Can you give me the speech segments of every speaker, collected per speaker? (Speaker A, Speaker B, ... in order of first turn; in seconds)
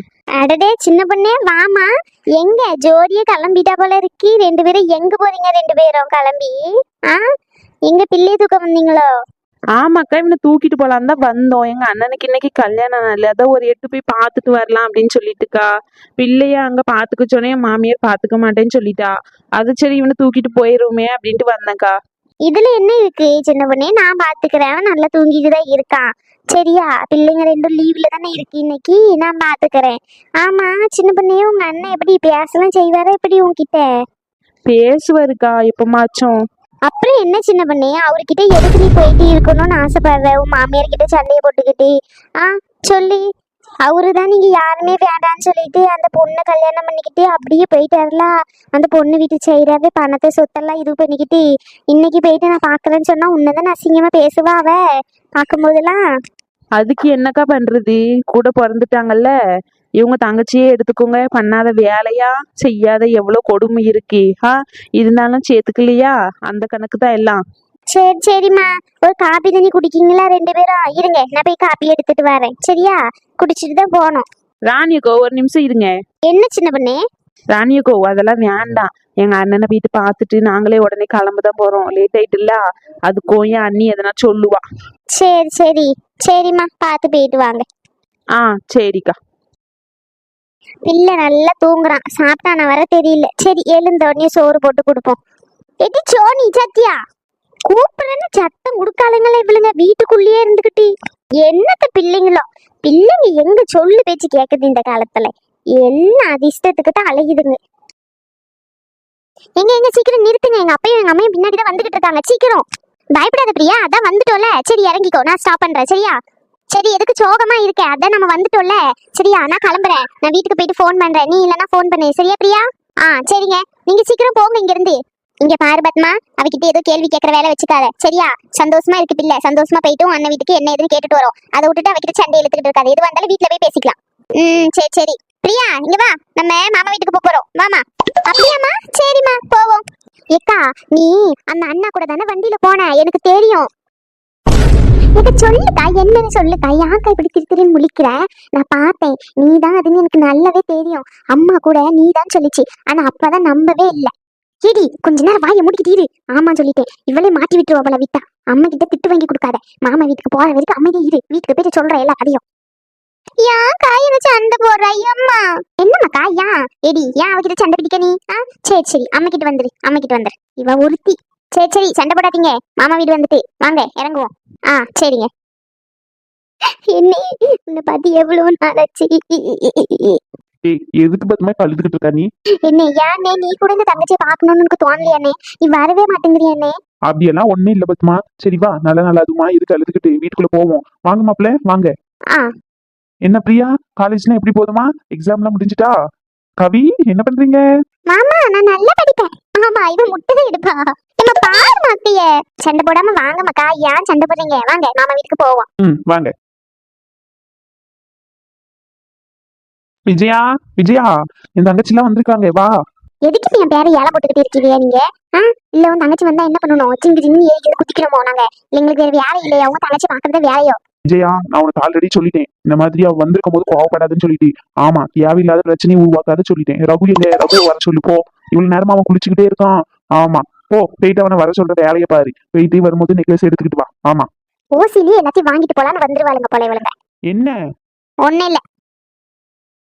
Speaker A: 0.3-7.2, 7.9-9.1, 22.4-33.8, 36.9-43.2, 43.8-54.8, 55.4-56.0, 67.9-74.2, 76.2-77.0, 85.1-87.7, 90.9-95.2, 95.8-97.0, 97.7-100.9, 101.4-107.6, 109.6-112.6, 113.2-116.2, 116.7-139.8, 140.4-143.7, 145.2-154.1, 154.6-162.4, 163.4-175.3, 176.9-180.2, 182.7-186.7, 198.1-205.7, 213.2-220.8, 234.8-236.9, 238.2-238.6
Speaker B: 9.8-15.7, 16.2-21.9, 34.7-36.4, 56.8-59.3, 60.0-67.4, 74.7-75.9, 77.5-84.6, 88.4-89.2
Speaker C: 180.7-182.3, 187.1-191.9, 193.2-195.9, 196.6-197.6, 205.8-206.3, 210.1-212.8, 221.1-234.3, 237.3-237.6